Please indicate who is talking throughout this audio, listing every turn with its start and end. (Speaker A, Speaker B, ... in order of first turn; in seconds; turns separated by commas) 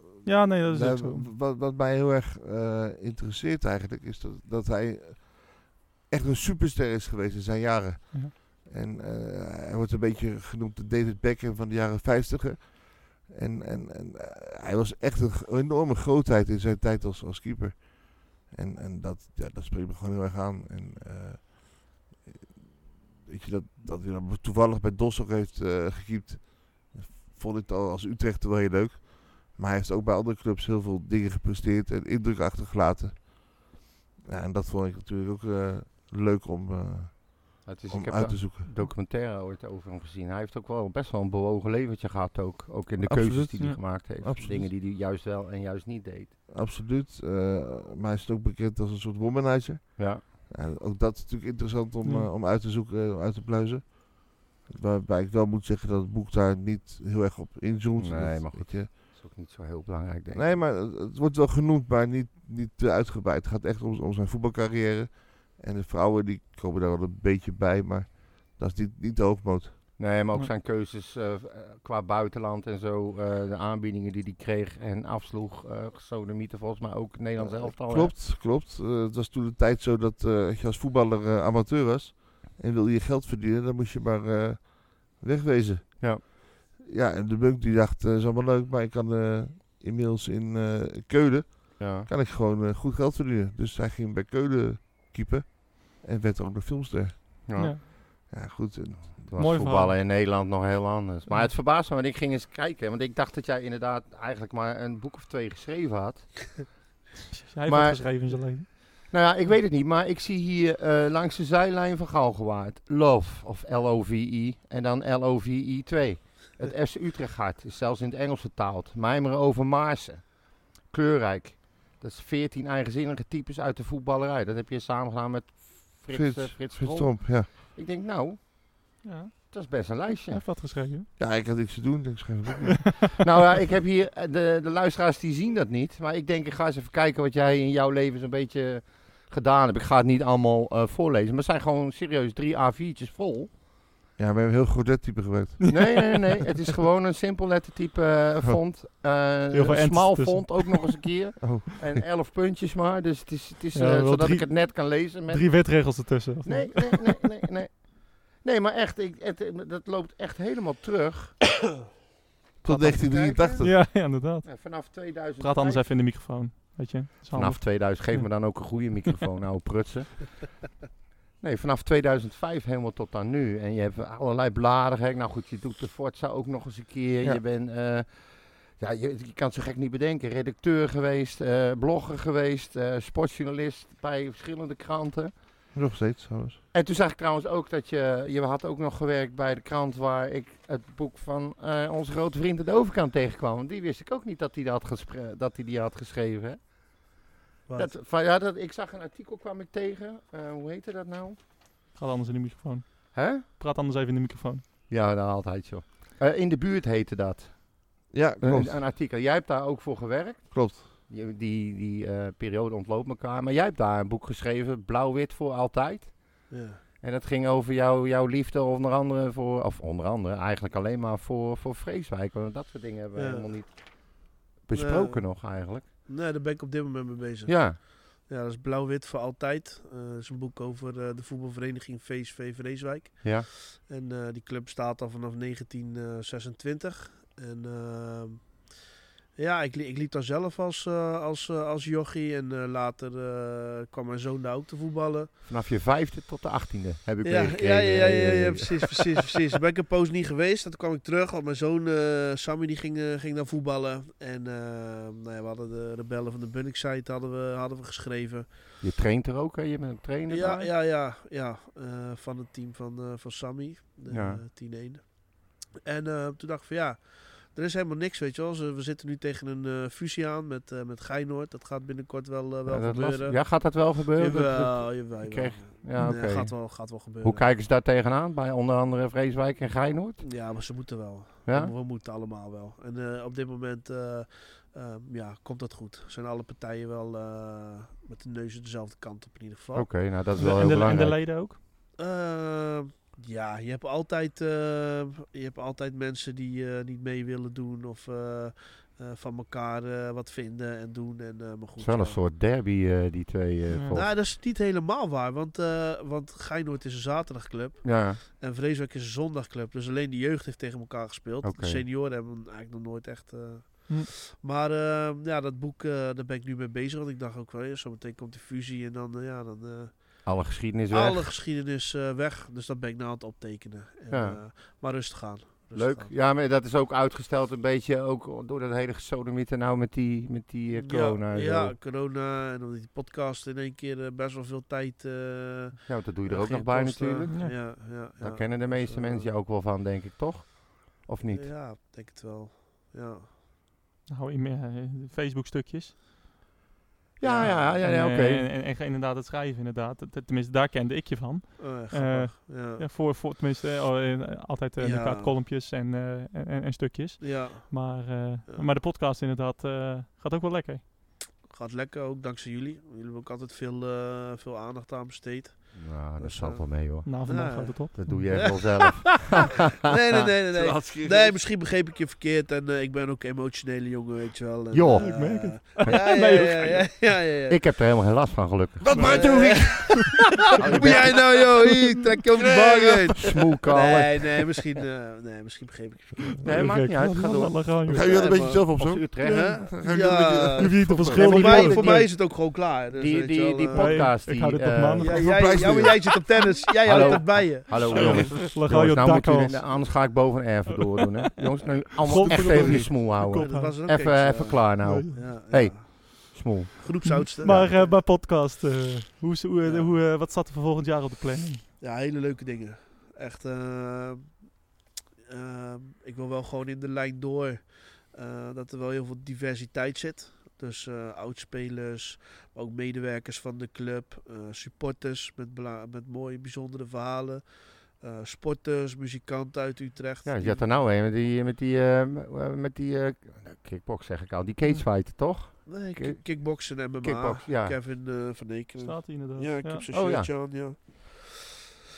Speaker A: 0.2-1.2, Speaker B: 0.7-38.7, Speaker C: 37.6-46.4, Speaker B: 43.0-44.7, Speaker B: 46.5-58.9, Speaker C: 50.0-50.2, Speaker A: 52.0-52.3, Speaker C: 58.0-60.5, Speaker B: 60.3-69.8, Speaker C: 70.0-78.1, Speaker B: 77.4-97.4, Speaker C: 91.8-92.1, Speaker C: 97.5-97.8, Speaker B: 98.3-99.3, Speaker C: 99.2-106.8, Speaker A: 99.4-100.0, Speaker A: 101.3-101.5, Speaker A: 107.3-109.1, Speaker C: 107.7-128.6, Speaker B: 126.1-127.5, Speaker A: 129.0-131.1, Speaker C: 129.5-130.4, Speaker B: 131.2-133.1, Speaker C: 133.2-143.5, Speaker B: 144.2-145.7, Speaker A: 145.6-146.2, Speaker C: 145.7-161.5, Speaker A: 149.5-151.0, Speaker A: 153.7-157.3, Speaker B: 162.6-163.8, Speaker C: 162.7-165.9, Speaker A: 163.6-168.3, Speaker C: 167.3-170.5, Speaker C: 171.4-185.4, Speaker B: 185.7-186.6, Speaker C: 186.7-196.8, Speaker D: 197.7-197.9, Speaker C: 197.8-201.4, Speaker A: 202.0-204.6, Speaker C: 203.1-203.4, Speaker C: 204.9-225.9, Speaker B: 208.1-208.8, Speaker B: 210.5-210.8, Speaker D: 216.5-216.8, Speaker D: 223.1-223.5, Speaker D: 224.7-225.3, Speaker D: 226.1-238.8, Speaker C: 227.5-227.8, Speaker D: 239.4-245.3, Speaker C: 245.4-249.3, Speaker D: 247.2-258.5, Speaker C: 258.8-260.7, Speaker D: 260.3-277.5, Speaker C: 264.1-264.4, Speaker C: 272.7-280.2, Speaker A: 276.0-276.2, Speaker D: 280.2-290.0, Speaker C: 281.5-281.7, Speaker C: 289.7-291.2, Speaker A: 290.4-291.6, Speaker D: 292.0-302.2, Speaker C: 301.8-304.1, Speaker D: 303.9-320.4, Speaker C: 307.8-308.2, Speaker C: 311.4-311.8, Speaker C: 320.2-321.3, Speaker D: 320.9-326.1, Speaker C: 324.1-324.4, Speaker C: 325.8-331.8, Speaker D: 330.8-339.3, Speaker C: 335.9-341.5, Speaker A: 337.3-337.6, Speaker D: 341.3-343.3, Speaker A: 344.1-346.0, Speaker C: 347.2-348.5, Speaker D: 347.2-347.8, Speaker A: 347.8-360.9, Speaker D: 351.6-352.9, Speaker D: 354.8-355.3, Speaker D: 357.2-358.7, Speaker D: 361.4-368.9, Speaker C: 365.7-369.6, Speaker A: 367.0-368.6, Speaker D: 369.8-377.6, Speaker B: 370.5-371.4, Speaker C: 374.7-376.0, Speaker A: 375.0-376.9, Speaker C: 377.5-379.5, Speaker B: 378.8-383.4, Speaker D: 378.9-386.4, Speaker A: 378.9-379.2, Speaker C: 380.6-381.4, Speaker C: 383.2-384.3, Speaker A: 386.4-388.3, Speaker C: 386.4-389.7, Speaker B: 387.9-391.4, Speaker D: 388.1-394.1, Speaker A: 390.6-392.1, Speaker C: 391.2-395.2, Speaker A: 393.7-395.9, Speaker D: 395.0-398.3, Speaker B: 395.1-396.3, Speaker C: 396.8-407.7, Speaker A: 396.9-397.2, Speaker B: 397.9-398.4, Speaker A: 397.9-399.9, Speaker A: 402.0-403.8, Speaker B: 402.1-402.9, Speaker D: 403.3-408.0, Speaker A: 404.8-405.2, Speaker A: 407.0-411.6, Speaker D: 409.6-410.0, Speaker D: 411.8-414.7, Speaker D: 415.3-430.7, Speaker C: 430.2-437.8, Speaker D: 435.7-441.4, Speaker A: 438.8-439.8, Speaker C: 439.9-440.3